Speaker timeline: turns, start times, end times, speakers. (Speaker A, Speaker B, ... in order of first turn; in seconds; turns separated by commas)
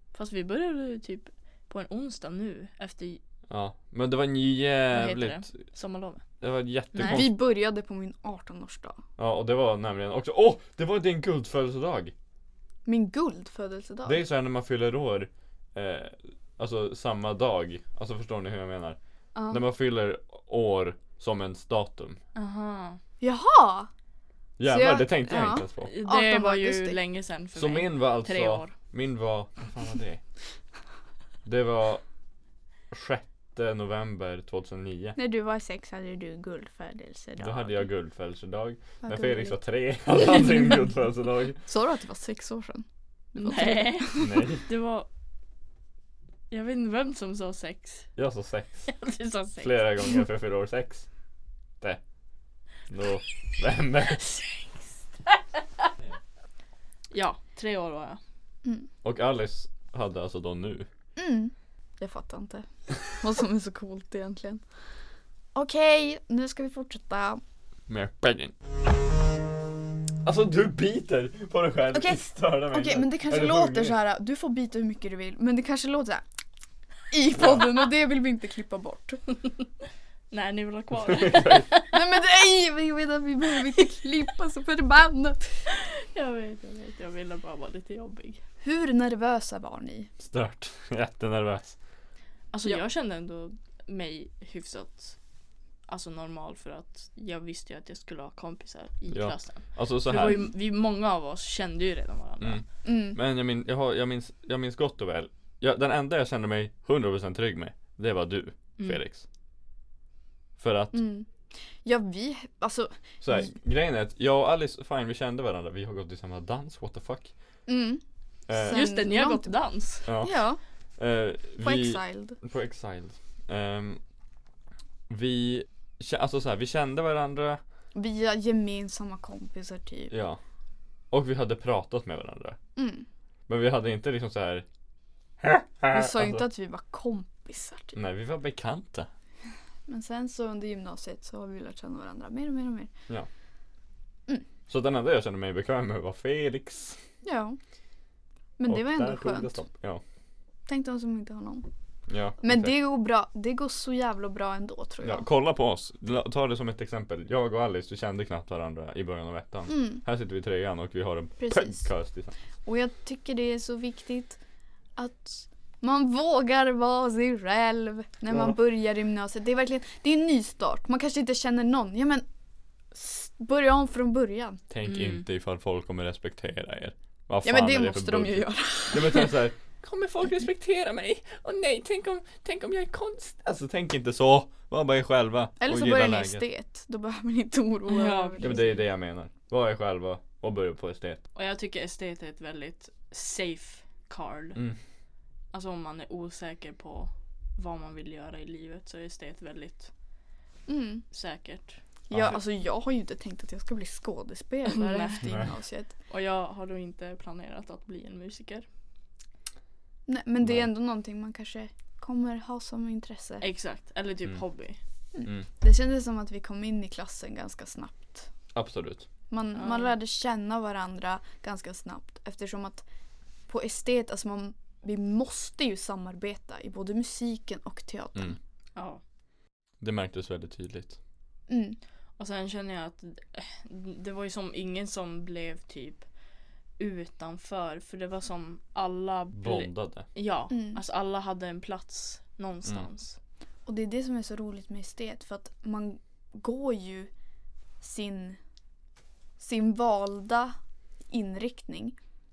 Speaker A: 0.1-3.2, Speaker B: 3.5-5.7, Speaker A: 4.9-6.2, Speaker B: 6.4-7.3, Speaker A: 7.0-7.2, Speaker C: 7.0-9.0, Speaker B: 9.2-12.1, Speaker C: 12.9-14.2, Speaker B: 14.1-19.0, Speaker C: 19.4-19.6, Speaker B: 19.5-22.2, Speaker A: 22.4-23.0, Speaker C: 23.2-23.9, Speaker B: 24.6-25.9, Speaker C: 24.7-27.0, Speaker A: 25.9-28.7, Speaker B: 27.6-30.2, Speaker B: 31.4-32.0, Speaker B: 32.9-35.2, Speaker C: 35.2-37.9, Speaker B: 37.4-41.6, Speaker C: 39.0-39.6, Speaker C: 41.7-44.4, Speaker A: 43.4-45.1, Speaker B: 44.2-44.6, Speaker A: 46.5-48.1, Speaker B: 48.2-49.0, Speaker A: 48.9-50.2, Speaker B: 49.6-51.1, Speaker B: 52.9-54.2, Speaker A: 57.1-58.2, Speaker B: 59.0-60.9, Speaker C: 61.2-64.6, Speaker C: 65.5-67.4, Speaker B: 67.9-68.5, Speaker B: 70.2-74.0, Speaker C: 71.9-76.2, Speaker C: 77.1-79.2, Speaker B: 77.3-77.6, Speaker A: 80.3-82.0, Speaker B: 81.1-81.7, Speaker C: 81.9-85.7, Speaker A: 85.7-88.4, Speaker C: 88.6-90.1, Speaker B: 90.2-91.8, Speaker A: 92.5-95.2, Speaker A: 95.9-102.6, Speaker B: 99.1-100.4, Speaker B: 102.4-109.2, Speaker C: 102.8-103.2, Speaker B: 110.6-111.0, Speaker C: 110.9-113.5, Speaker B: 113.2-117.3, Speaker C: 117.7-118.0, Speaker B: 118.5-118.9, Speaker C: 118.6-119.5, Speaker A: 118.6-120.1, Speaker B: 120.1-120.4, Speaker C: 120.2-120.6, Speaker B: 121.0-124.0, Speaker C: 121.6-122.4, Speaker B: 125.1-127.6, Speaker C: 128.0-130.1, Speaker B: 130.1-130.4, Speaker B: 131.1-132.6, Speaker C: 132.8-133.1, Speaker B: 133.5-134.7, Speaker B: 135.4-136.4, Speaker C: 135.9-138.0, Speaker B: 137.9-139.1, Speaker C: 139.9-142.9, Speaker B: 144.7-147.0, Speaker C: 147.2-147.6, Speaker C: 148.6-149.6, Speaker B: 148.7-150.0, Speaker C: 150.7-151.7, Speaker B: 152.1-152.7, Speaker C: 152.4-155.3, Speaker B: 155.0-162.3, Speaker C: 159.7-160.0, Speaker C: 161.4-161.9, Speaker C: 162.7-164.4, Speaker C: 165.0-172.3, Speaker C: 172.9-174.6, Speaker B: 174.7-186.4, Speaker A: 174.9-175.2, Speaker C: 177.4-179.4, Speaker C: 185.6-188.7, Speaker A: 187.9-188.8, Speaker B: 188.4-191.2, Speaker A: 191.3-194.6, Speaker A: 195.5-199.9, Speaker C: 200.7-201.1, Speaker A: 201.1-201.8, Speaker C: 202.1-205.9, Speaker B: 202.1-202.4, Speaker A: 204.7-205.5, Speaker A: 206.1-208.7, Speaker C: 210.1-213.4, Speaker A: 213.4-214.8, Speaker C: 215.1-218.3, Speaker B: 218.5-219.1, Speaker C: 219.3-222.8, Speaker A: 219.6-219.9, Speaker C: 223.5-228.4, Speaker A: 228.8-229.0, Speaker B: 229.8-231.0, Speaker C: 231.5-231.8, Speaker A: 232.2-236.1, Speaker A: 236.8-243.2, Speaker B: 239.3-240.1, Speaker C: 240.5-240.8, Speaker C: 243.7-247.1, Speaker C: 247.8-248.4, Speaker C: 249.4-250.6, Speaker C: 251.1-252.0